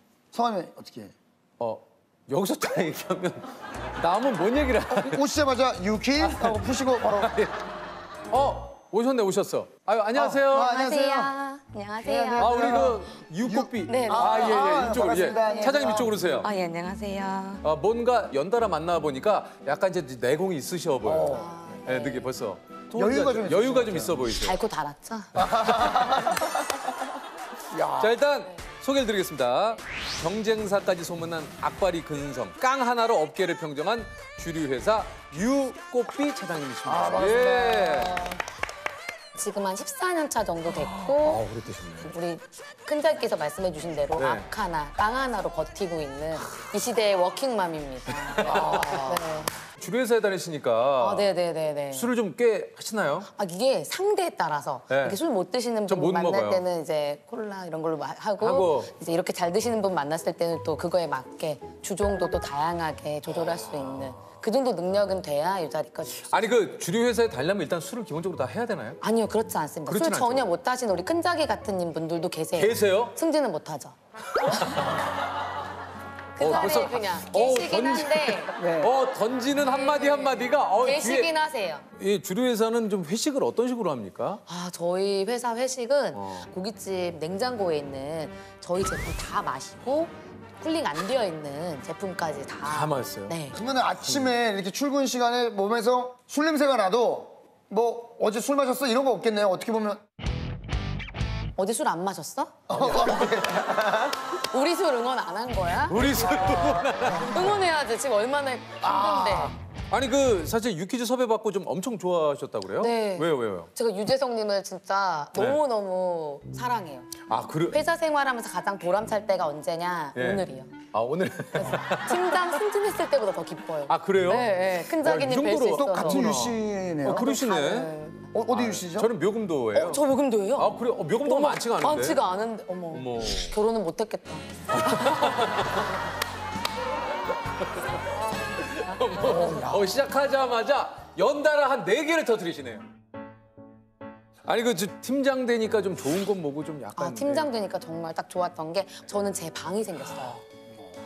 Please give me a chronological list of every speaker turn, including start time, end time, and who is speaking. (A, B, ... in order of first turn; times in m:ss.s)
0:00.3-0:01.1 A
0:01.6-0:05.2 B
0:05.0-0:07.3 A
0:06.2-0:07.5 B
0:08.3-0:10.8 B
0:10.1-0:11.3 A
0:10.7-0:13.0 C
0:12.0-0:16.2 A
0:12.4-0:16.5 B
0:13.8-0:17.6 C
0:17.6-0:24.6 B
0:21.0-0:21.5 A
0:21.3-0:22.3 C
0:22.9-0:24.2 A
0:24.3-0:25.5 C
0:25.4-0:26.7 A
0:25.7-0:26.2 B
0:27.7-0:28.2 A
0:28.0-0:38.3 B
0:36.8-0:37.9 A
0:37.7-0:38.4 C
0:39.3-0:41.4 C
0:40.7-0:42.1 B
0:42.0-0:49.5 C
0:44.2-0:44.5 B
0:48.3-0:49.2 B
0:48.5-0:49.0 A
0:49.8-0:51.3 B
0:51.0-0:52.1 C
0:51.9-0:53.3 B
0:53.3-1:06.5 C
0:54.9-0:55.2 B
0:55.9-0:56.6 B
0:58.4-0:58.9 B
1:03.6-1:04.1 B
1:06.3-1:09.0 B
1:09.0-1:14.0 C
1:09.9-1:10.4 B
1:12.6-1:13.1 B
1:14.4-1:15.0 B
1:14.5-1:14.8 C
1:16.4-1:18.6 C
1:16.4-1:21.3 B
1:18.6-1:18.9 A
1:19.5-1:21.8 C
1:21.9-1:24.4 B
1:24.5-1:33.6 C
1:26.1-1:26.5 B
1:32.6-1:33.4 B
1:33.5-1:40.0 A
1:34.0-1:34.3 B
1:41.6-1:42.9 C
1:42.7-1:44.2 A
1:42.7-1:43.5 B
1:44.4-1:49.5 C
1:45.9-1:47.6 B
1:48.8-1:49.2 A
1:48.9-1:53.7 B
1:52.8-1:57.2 C
1:57.3-1:57.8 B
1:57.7-2:00.7 C
2:00.1-2:02.4 B
2:01.5-2:06.3 C
2:03.9-2:07.9 B
2:05.7-2:07.3 A
2:07.0-2:08.3 C
2:08.3-2:09.1 A
2:08.5-2:10.0 B
2:09.7-2:15.4 C
2:10.6-2:12.2 B
2:12.9-2:13.5 B
2:14.7-2:15.9 B
2:18.7-2:22.8 B
2:19.2-2:19.9 A
2:24.5-2:27.5 B
2:27.0-2:30.4 C